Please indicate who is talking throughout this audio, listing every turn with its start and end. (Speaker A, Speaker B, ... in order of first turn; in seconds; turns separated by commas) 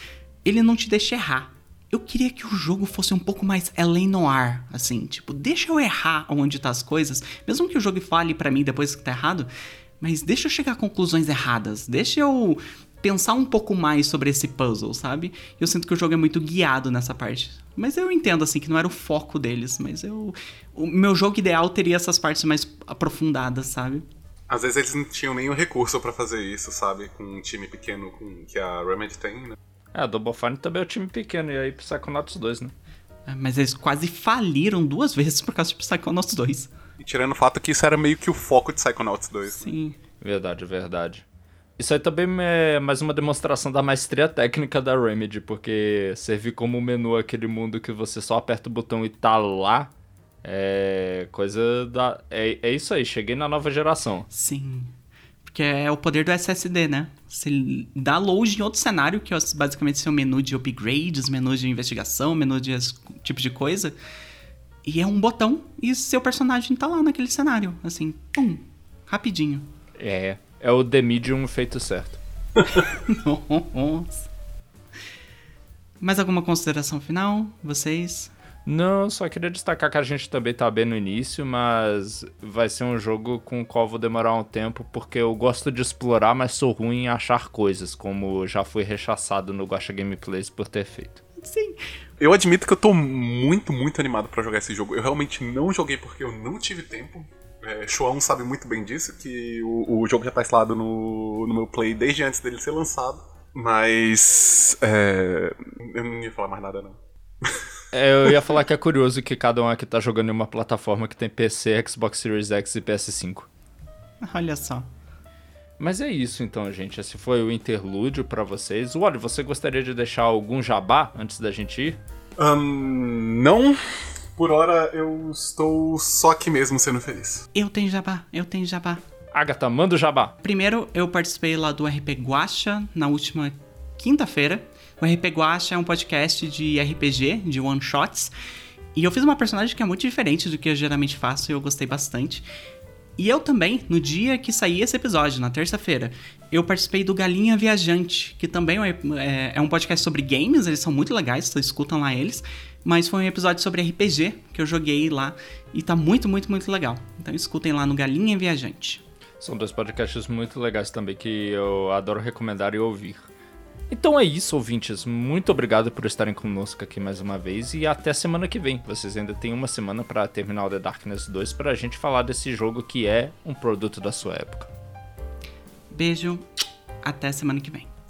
Speaker A: 0.4-24.1, Speaker B: 24.5-29.6, Speaker C: 29.9-32.7, Speaker A: 33.3-36.7, Speaker B: 37.0-39.7, Speaker A: 39.5-40.0, Speaker C: 40.2-41.2, Speaker C: 41.8-49.9, Speaker C: 50.4-54.3, Speaker A: 54.3-54.9, Speaker A: 55.4-64.0, Speaker A: 64.8-69.7, Speaker C: 70.0-72.2, Speaker A: 72.9-74.3, Speaker A: 76.0-78.3, Speaker C: 78.7-91.2, Speaker A: 91.4-91.8, Speaker B: 92.2-107.6, Speaker C: 107.9-113.5, Speaker A: 114.2-114.9, Speaker C: 115.8-122.0, Speaker B: 122.4-127.5, Speaker A: 127.5-129.0, Speaker C: 129.3-130.3, Speaker A: 130.4-138.3, Speaker A: 138.9-142.5, Speaker A: 143.2-159.0, Speaker C: 159.4-163.3, Speaker C: 163.9-174.7, Speaker A: 175.9-176.5, Speaker A: 177.0-177.9